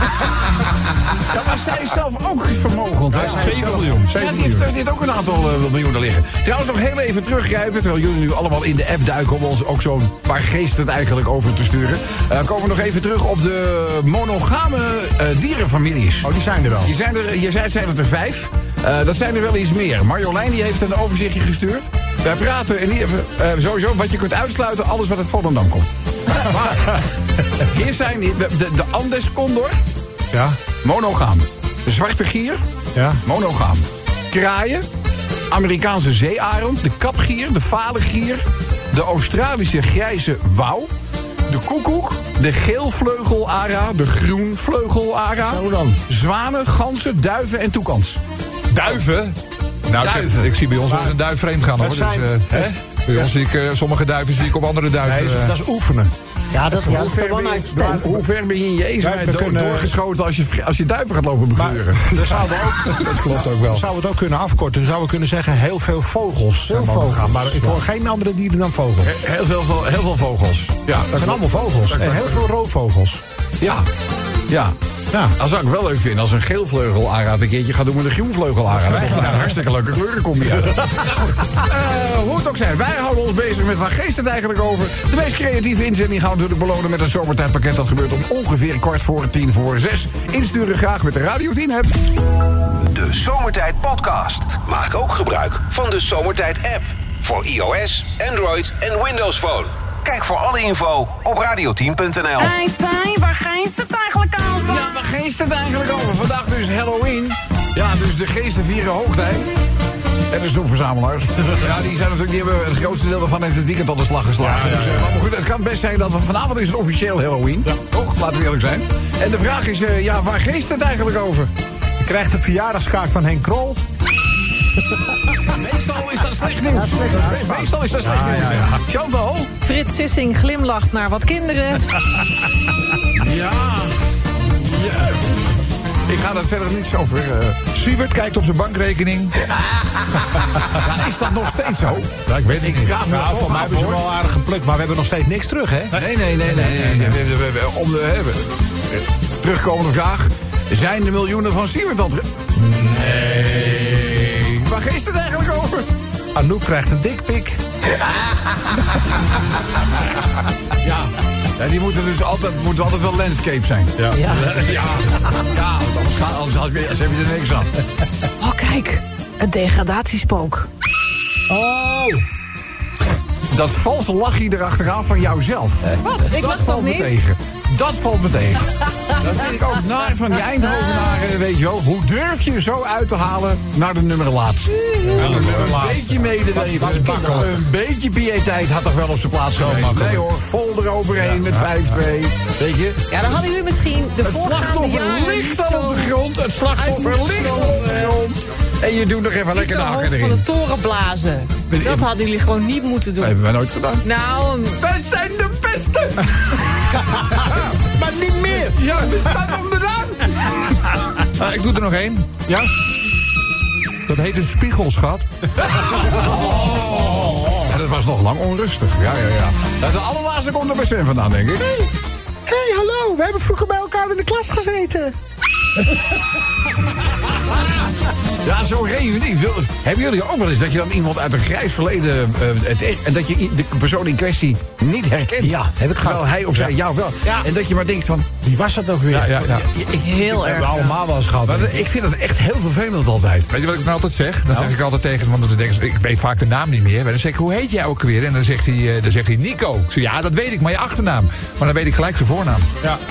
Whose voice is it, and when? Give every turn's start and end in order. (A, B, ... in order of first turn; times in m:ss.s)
0:01.3-0:16.3 A
0:03.1-0:04.1 B
0:03.2-0:04.6 C
0:16.2-0:16.9 B
0:16.8-0:27.1 A
0:27.6-0:29.8 A
0:30.3-0:30.6 B
0:30.8-0:32.6 A
0:33.0-0:33.2 B
0:33.2-0:34.8 A
0:35.5-0:40.9 A
0:41.5-0:48.2 A
0:45.4-0:46.0 D
0:48.7-0:49.4 C
0:49.9-0:55.6 C
0:50.0-0:50.5 A
0:50.9-0:51.2 B
0:51.8-0:53.3 B
0:55.0-0:56.1 B
0:56.5-0:58.2 D
0:56.8-0:57.2 B
0:56.8-1:02.3 A
0:59.0-1:00.0 B
1:01.6-1:09.2 B
1:02.9-1:03.5 A
1:03.0-1:03.8 C
1:06.7-1:07.1 D
1:09.0-1:12.4 A
1:11.1-1:13.2 B
1:13.6-1:13.9 A
1:14.5-1:14.8 A
1:15.3-1:32.0 A
1:18.9-1:19.5 B
1:32.8-1:42.6 E
1:42.4-1:44.9 F
1:44.7-1:49.5 A
1:50.3-2:01.5 A
1:54.4-1:55.2 B
2:02.0-2:03.8 B
2:05.5-2:09.5 A
2:06.7-2:07.8 D
2:07.1-2:08.8 B
2:09.6-2:12.0 G
2:13.2-2:14.0 A
2:14.6-2:15.3 A
2:16.1-2:17.6 A
2:17.7-2:19.4 C
2:20.7-2:24.0 A
2:22.3-2:23.0 C
2:23.0-2:26.0 B
2:25.9-2:35.9 A
2:26.7-2:27.1 C
2:36.4-2:37.6 B
2:40.8-2:47.8 A
2:44.1-2:44.9 B
2:44.1-2:44.7 D
2:48.4-2:50.7 G
2:51.5-2:52.2 B
2:53.5-3:13.1 A
2:56.0-2:57.2 G
3:04.8-3:05.1 G
3:05.1-3:07.7 B
3:05.3-3:05.7 C
3:09.6-3:10.2 C
3:13.1-3:16.2 G
3:14.2-3:20.4 A
3:16.7-3:18.2 G
3:19.5-3:23.4 G
3:21.7-3:22.1 A
3:23.2-3:24.0 A
3:24.0-3:24.8 G
3:24.8-3:27.8 A
3:27.9-3:28.8 B
3:28.6-3:30.7 A
3:31.3-3:32.3 C
3:34.1-3:35.3 C
3:35.6-3:41.8 A
3:42.5-3:45.1 B
3:47.4-3:47.8 A
3:48.4-3:58.3 A
3:55.4-3:56.3 D
3:58.4-3:59.6 B
3:59.1-3:59.7 C
3:59.7-4:01.0 G
3:59.9-4:00.4 A
4:00.3-4:01.8 B
4:01.4-4:03.5 A
4:03.5-4:12.7 C